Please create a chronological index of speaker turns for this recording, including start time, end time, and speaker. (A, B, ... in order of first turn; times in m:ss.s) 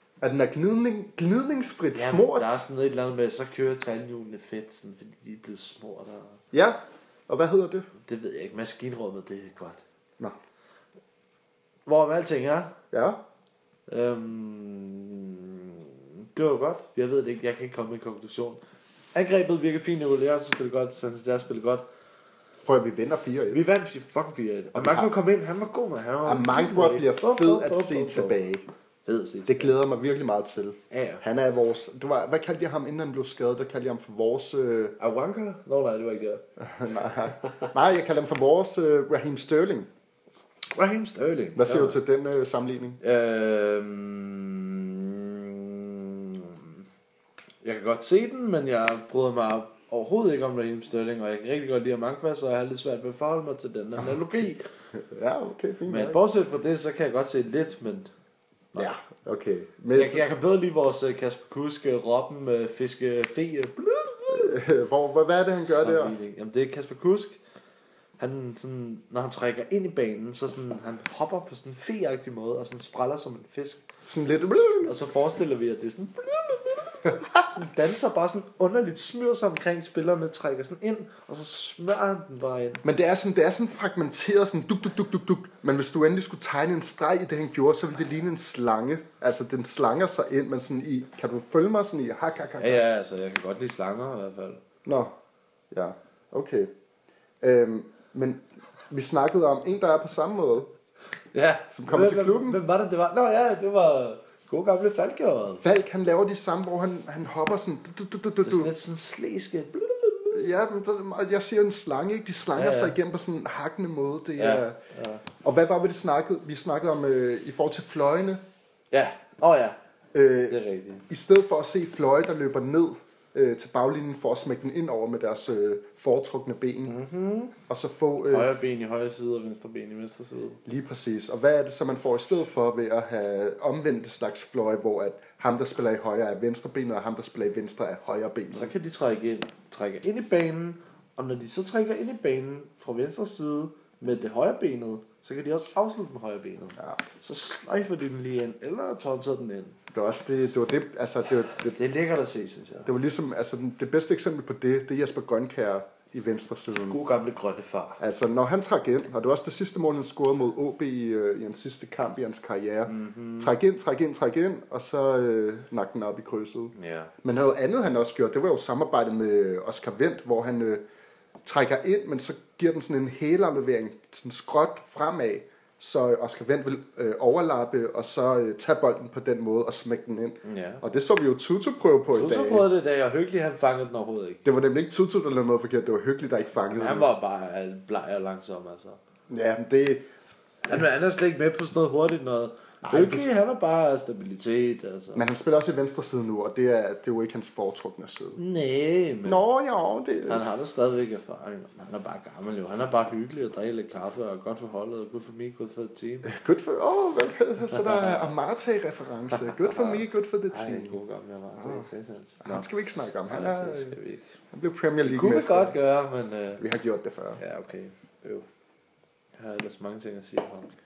0:00.2-0:02.6 A
0:01.9-0:06.4 B
0:06.5-0:07.9 A
0:08.0-0:09.8 B
0:11.8-0:12.8 B
0:12.9-0:13.2 A
0:13.9-0:18.6 B
0:19.1-0:21.8 B
0:22.6-0:23.8 A
0:23.5-0:28.4 B
0:24.7-0:25.1 A
0:26.2-0:28.6 A
0:29.0-0:29.8 B
0:29.5-0:35.0 A
0:30.9-0:31.2 B
0:35.0-0:36.4 B
0:36.6-0:39.9 A
0:37.4-0:37.7 B
0:40.7-0:42.0 B
0:41.5-0:43.0 A
0:43.0-0:46.8 B
0:47.6-0:54.6 B
0:54.9-0:56.2 A
0:55.9-0:58.1 B
0:58.8-1:00.2 A
0:59.9-1:04.7 B
1:04.3-1:06.2 A
1:05.7-1:07.4 B
1:08.2-1:13.8 B
1:14.0-1:15.0 A
1:14.8-1:22.8 B
1:17.0-1:17.4 A
1:22.8-1:32.8 A
1:32.6-1:34.6 B
1:34.8-1:35.1 A
1:35.7-1:36.7 A
1:37.4-1:40.7 A
1:41.3-1:45.6 B
1:41.7-1:42.6 A
1:45.6-1:48.7 A
1:48.4-1:50.5 B
1:50.3-1:54.8 A
1:52.5-1:52.9 B
1:54.4-1:55.2 B
1:55.4-1:58.4 A
1:58.9-1:59.8 B
2:00.1-2:07.0 A
2:00.5-2:01.1 B
2:06.8-2:07.6 B
2:07.7-2:08.6 A
2:08.3-2:10.6 B
2:10.6-2:18.7 A
2:18.5-2:29.8 B
2:26.8-2:27.0 A
2:29.9-2:31.8 A
2:31.6-2:32.9 B
2:32.8-2:37.0 A
2:36.9-2:38.0 B
2:38.0-2:50.8 A
2:42.8-2:43.6 B
2:46.7-2:47.1 B
2:51.4-3:02.7 A
3:00.4-3:00.8 B
3:02.1-3:04.4 B
3:04.4-3:07.1 A
3:06.7-3:09.0 B
3:09.3-3:10.1 A
3:10.6-3:15.2 B
3:12.8-3:13.3 A
3:15.1-3:18.4 A
3:18.4-3:19.4 B
3:19.2-3:20.4 A
3:20.3-3:26.3 B
3:26.2-3:31.0 A
3:27.8-3:28.3 B
3:29.4-3:32.7 B
3:31.6-3:31.9 A
3:32.4-3:34.0 A
3:33.3-3:34.3 B
3:34.5-3:35.8 A
3:35.0-3:36.6 B
3:36.6-3:37.4 A
3:37.4-3:38.4 B
3:39.4-3:40.7 B